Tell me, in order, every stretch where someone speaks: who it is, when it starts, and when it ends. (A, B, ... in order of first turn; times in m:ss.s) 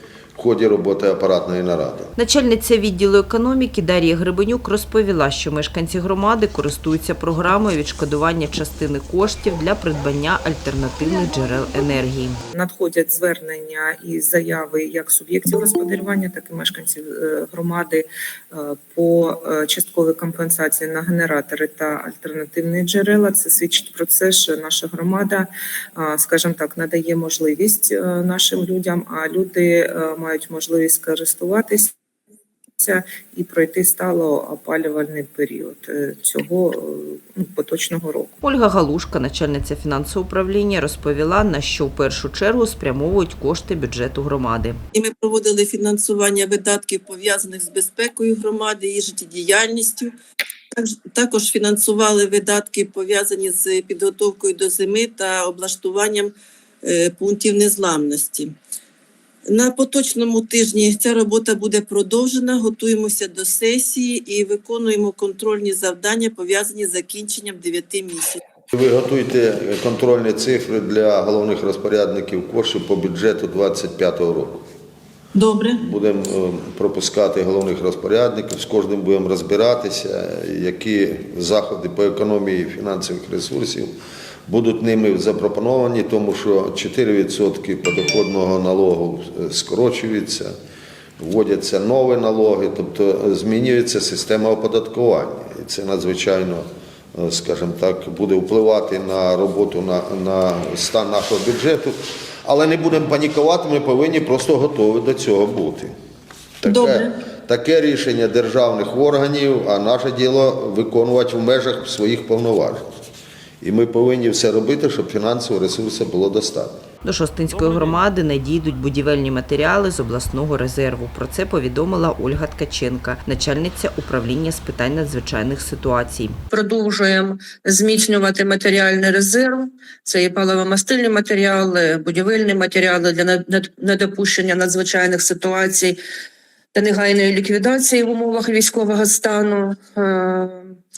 0:00.4-0:02.1 A
0:02.2-0:12.4 B
0:12.5-0:31.9 C
0:32.8-0:38.3 C
0:38.4-0:44.8 B
0:45.0-0:50.2 D
0:50.7-0:58.6 D
0:59.5-1:08.4 D
1:08.7-1:14.6 A
1:15.4-1:15.8 D
1:15.8-1:23.9 A
1:24.5-1:30.5 A
1:31.2-1:45.9 A
1:46.6-1:52.8 A
1:46.7-1:47.1 D
1:53.6-1:56.8 A
1:57.0-2:06.4 B
2:06.5-2:16.0 E
2:16.7-2:20.7 E